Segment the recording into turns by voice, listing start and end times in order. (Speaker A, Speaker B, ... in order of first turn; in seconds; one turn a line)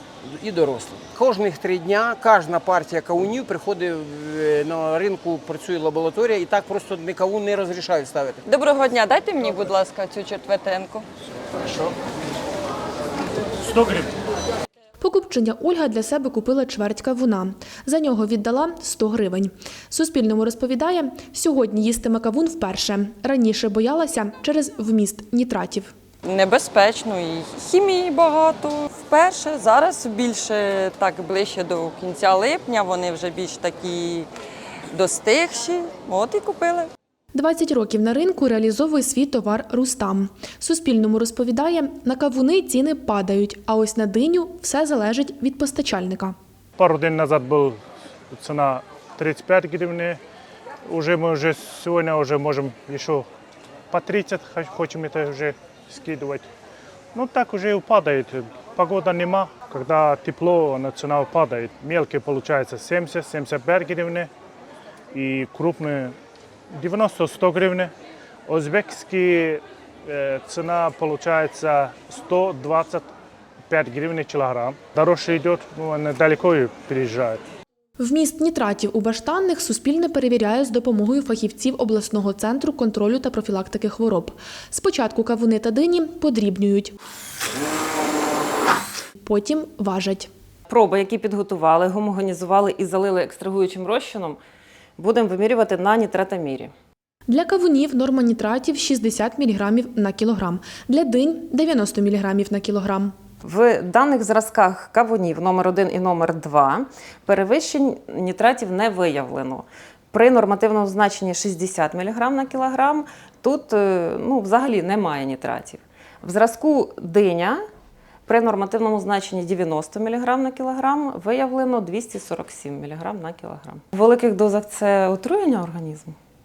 Speaker A: 0.2-8.4
Speaker B: 8.5-11.1
Speaker C: 11.7-11.9
Speaker C: 13.6-14.1
Speaker D: 15.0-25.9
Speaker B: 26.2-34.3
Speaker B: 34.9-36.9
Speaker D: 37.3-46.3
Speaker C: 46.8-47.8
Speaker C: 48.3-50.2
Speaker C: 50.9-53.2
Speaker C: 53.9-56.5
Speaker C: 57.1-64.3
Speaker C: 65.1-66.1
Speaker C: 66.7-67.9
Speaker C: 68.5-73.1
Speaker C: 73.7-77.4
Speaker D: 78.0-87.0
Speaker D: 89.2-90.3
Speaker E: 90.7-94.4
Speaker E: 95.0-96.7
Speaker D: 97.3-103.1
Speaker E: 103.4-117.6
Speaker E: 118.3-126.2